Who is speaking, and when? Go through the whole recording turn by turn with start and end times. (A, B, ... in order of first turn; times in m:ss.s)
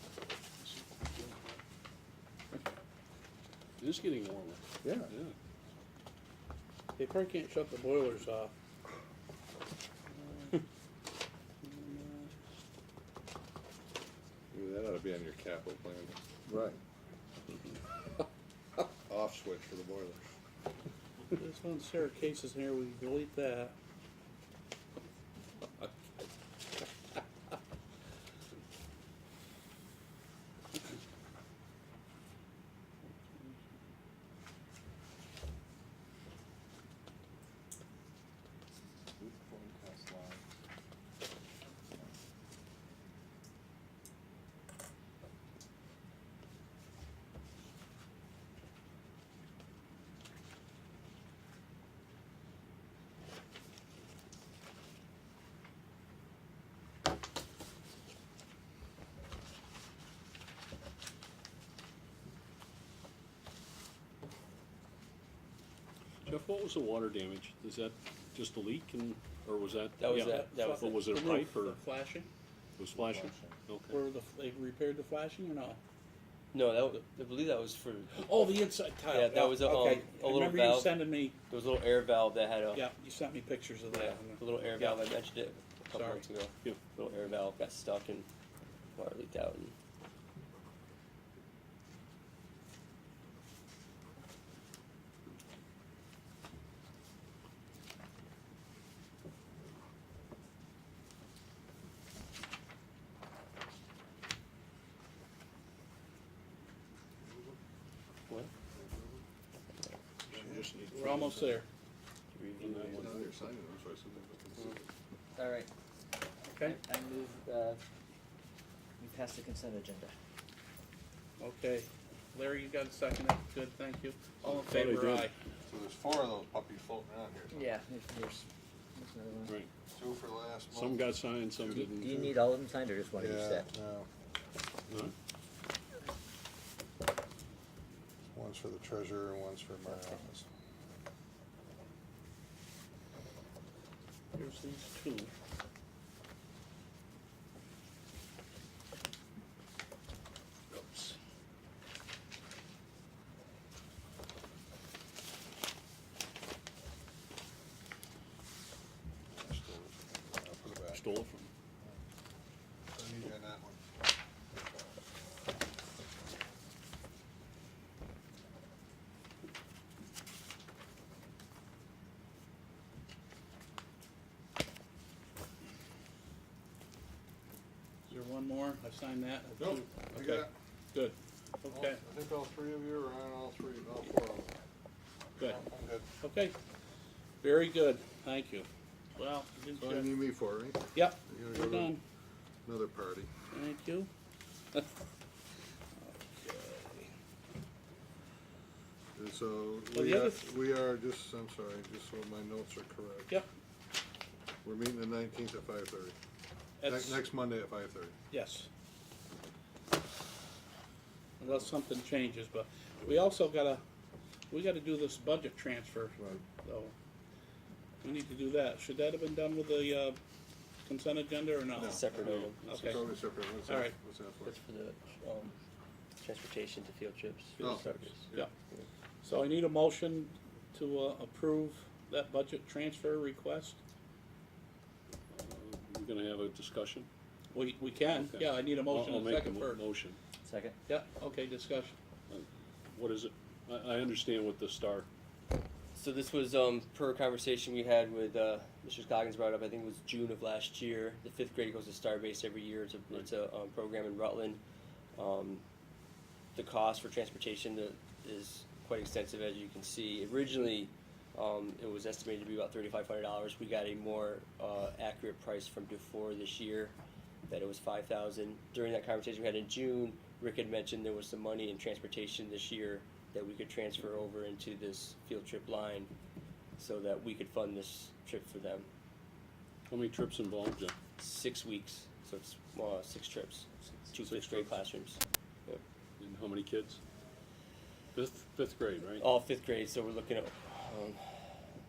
0:00.6-0:01.6 A
0:03.8-0:05.3 A
0:04.8-0:05.1 B
0:07.0-0:08.5 C
0:10.2-0:10.6 C
0:11.6-0:12.3 C
0:14.5-0:16.8 D
0:19.1-0:20.3 D
0:21.3-0:23.8 C
0:39.2-0:40.4 B
1:06.2-1:11.8 A
1:10.0-1:11.0 E
1:10.1-1:12.3 C
1:12.8-1:14.0 A
1:12.9-1:13.6 B
1:13.9-1:15.8 C
1:16.5-1:18.2 E
1:18.1-1:21.4 C
1:19.1-1:21.0 E
1:21.5-1:22.8 E
1:22.7-1:25.1 C
1:23.9-1:28.3 E
1:25.9-1:26.3 C
1:29.0-1:29.8 E
1:47.2-1:47.6 D
1:48.8-1:49.1 D
1:50.3-1:51.4 D
1:50.3-1:51.5 A
1:50.9-1:51.7 C
1:52.3-1:53.2 E
1:52.6-1:53.3 A
1:52.9-1:54.9 D
1:55.4-1:55.7 B
1:56.5-1:56.8 C
1:56.6-1:57.8 B
1:59.0-2:00.1 B
2:01.4-2:05.3 C
2:04.7-2:05.3 A
2:05.7-2:07.6 D
2:07.5-2:09.6 B
2:09.9-2:12.4 D
2:10.7-2:12.2 A
2:11.7-2:13.7 B
2:13.1-2:14.1 D
2:18.4-2:20.5 D
2:19.9-2:20.2 B
2:24.4-2:25.3 C
2:30.7-2:31.2 C
2:39.3-2:41.1 D
2:40.7-2:41.5 A
2:42.9-2:43.8 D
2:58.1-3:02.0 C
2:59.6-3:00.5 D
3:01.7-3:04.5 D
3:05.4-3:05.6 C
3:05.4-3:06.1 D
3:06.2-3:06.6 C
3:07.4-3:10.2 C
3:09.8-3:11.9 D
3:10.9-3:12.0 C
3:12.6-3:13.3 D
3:13.5-3:14.1 C
3:16.0-3:17.1 C
3:19.2-3:23.4 D
3:19.9-3:20.5 C
3:24.6-3:26.2 D
3:26.8-3:27.2 C
3:26.8-3:28.2 D
3:28.3-3:28.7 C
3:31.4-3:33.8 C
3:34.5-3:36.9 C
3:36.2-3:36.4 D
3:38.0-3:40.2 C
3:40.9-3:42.1 C
3:41.7-3:42.1 D
3:41.8-3:43.0 E
3:42.2-3:42.5 A
3:42.6-3:43.0 C
3:42.7-3:44.6 D
3:43.7-3:44.0 C
3:44.4-3:45.6 E
3:46.2-3:48.9 E
3:47.6-3:48.5 D
3:49.2-3:53.8 C
3:55.3-3:57.1 A
3:57.5-3:59.8 C
3:58.1-4:00.2 A
4:00.4-4:00.8 B
4:00.9-4:02.0 C
4:02.3-4:05.1 A
4:05.9-4:14.6 E
4:15.2-4:15.6 E
4:16.6-4:27.0 E
4:27.5-4:36.1 E
4:36.8-4:38.9 E
4:39.9-4:41.0 A
4:41.2-4:45.8 E
4:44.2-4:44.8 A
4:46.2-4:47.0 A
4:48.1-4:49.3 A
4:49.2-4:51.7 E